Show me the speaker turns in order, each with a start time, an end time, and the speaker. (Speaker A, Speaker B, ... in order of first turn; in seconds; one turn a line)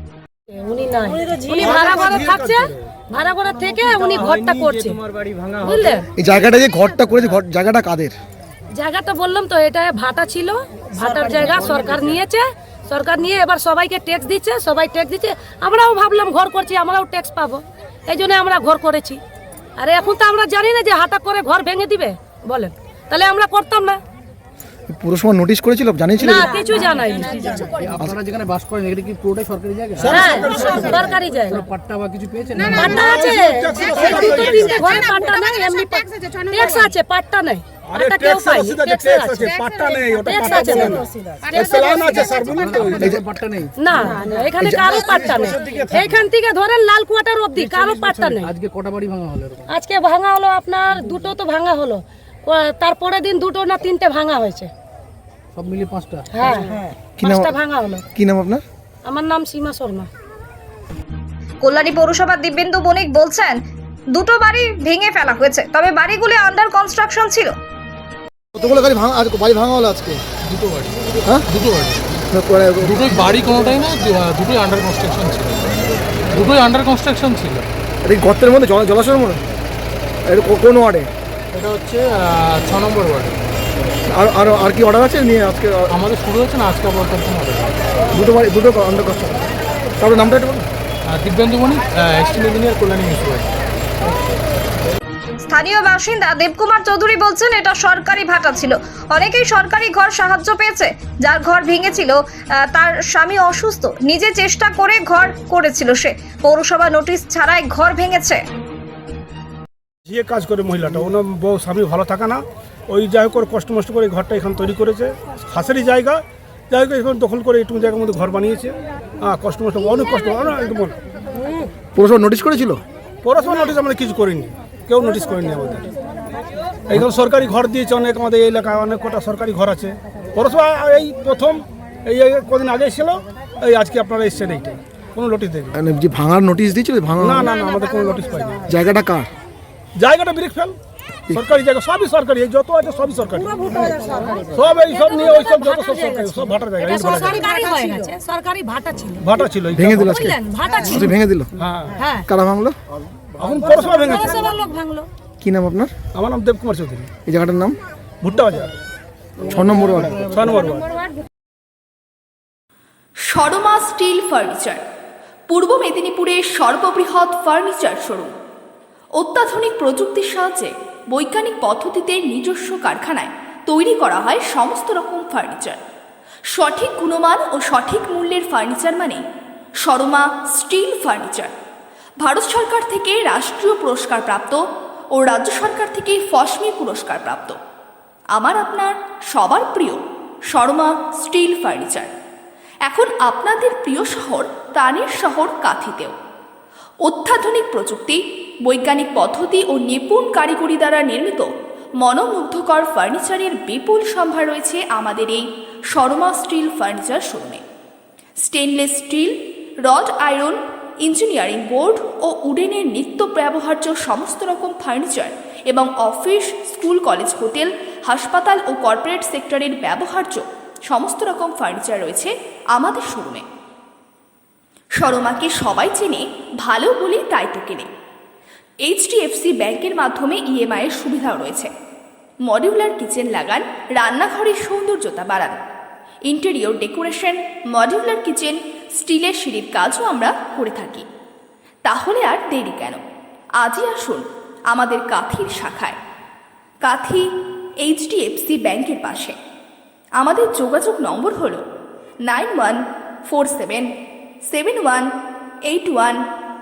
Speaker A: 0.6-6.1
Speaker B: 1.6-2.8
Speaker C: 6.2-8.1
Speaker A: 8.8-19.2
Speaker A: 19.8-24.0
Speaker C: 24.9-26.5
Speaker A: 26.2-27.8
Speaker D: 27.7-30.2
Speaker B: 30.0-31.1
Speaker A: 30.0-31.7
Speaker D: 30.9-33.0
Speaker A: 32.6-39.5
Speaker B: 32.8-35.0
Speaker B: 37.9-43.1
Speaker A: 40.2-42.4
Speaker D: 42.6-44.1
Speaker C: 43.0-43.3
Speaker A: 43.8-48.5
Speaker C: 44.6-45.1
Speaker D: 45.2-46.2
Speaker D: 47.6-49.7
Speaker A: 49.7-54.7
Speaker D: 55.5-56.3
Speaker A: 56.3-58.0
Speaker C: 57.2-57.5
Speaker C: 58.1-58.6
Speaker A: 59.0-60.1
Speaker E: 61.6-63.6
Speaker E: 64.1-67.5
Speaker C: 68.5-70.2
Speaker F: 70.5-72.2
Speaker C: 72.3-73.3
Speaker F: 72.8-75.7
Speaker F: 76.3-77.7
Speaker C: 78.0-79.4
Speaker C: 80.3-81.1
Speaker F: 81.5-83.4
Speaker C: 84.1-85.9
Speaker F: 85.9-87.7
Speaker C: 88.1-89.5
Speaker C: 90.0-90.7
Speaker F: 91.1-93.5
Speaker E: 95.5-108.4
Speaker B: 110.1-121.0
Speaker C: 122.0-122.8
Speaker B: 123.2-125.9
Speaker B: 126.9-135.8
Speaker C: 135.8-137.5
Speaker B: 137.2-138.7
Speaker C: 138.7-139.3
Speaker B: 140.0-140.8
Speaker B: 141.3-143.5
Speaker A: 143.4-149.3
Speaker B: 144.5-147.5
Speaker B: 149.2-150.2
Speaker C: 149.7-151.5
Speaker A: 150.0-151.1
Speaker B: 151.6-152.0
Speaker A: 152.0-152.3
Speaker C: 152.2-152.8
Speaker B: 153.4-154.5
Speaker A: 153.6-155.1
Speaker C: 155.4-155.9
Speaker B: 156.1-157.1
Speaker C: 157.3-157.8
Speaker B: 158.2-158.8
Speaker C: 159.4-160.3
Speaker B: 160.2-160.9
Speaker G: 163.3-164.8
Speaker G: 165.5-168.3
Speaker G: 169.2-175.8
Speaker G: 176.5-179.2
Speaker G: 179.8-181.5
Speaker G: 182.2-184.6
Speaker G: 185.1-187.6
Speaker G: 188.3-192.1
Speaker G: 192.9-196.2
Speaker G: 197.0-201.5
Speaker G: 202.0-207.6
Speaker G: 208.4-223.4
Speaker G: 225.0-227.9
Speaker G: 228.8-231.7
Speaker G: 232.5-235.6
Speaker G: 236.3-241.1
Speaker G: 241.9-243.0
Speaker G: 243.6-246.0
Speaker G: 246.8-247.3
Speaker G: 247.8-249.4
Speaker G: 250.2-251.6
Speaker G: 252.3-253.9
Speaker G: 254.5-255.1
Speaker G: 255.7-256.2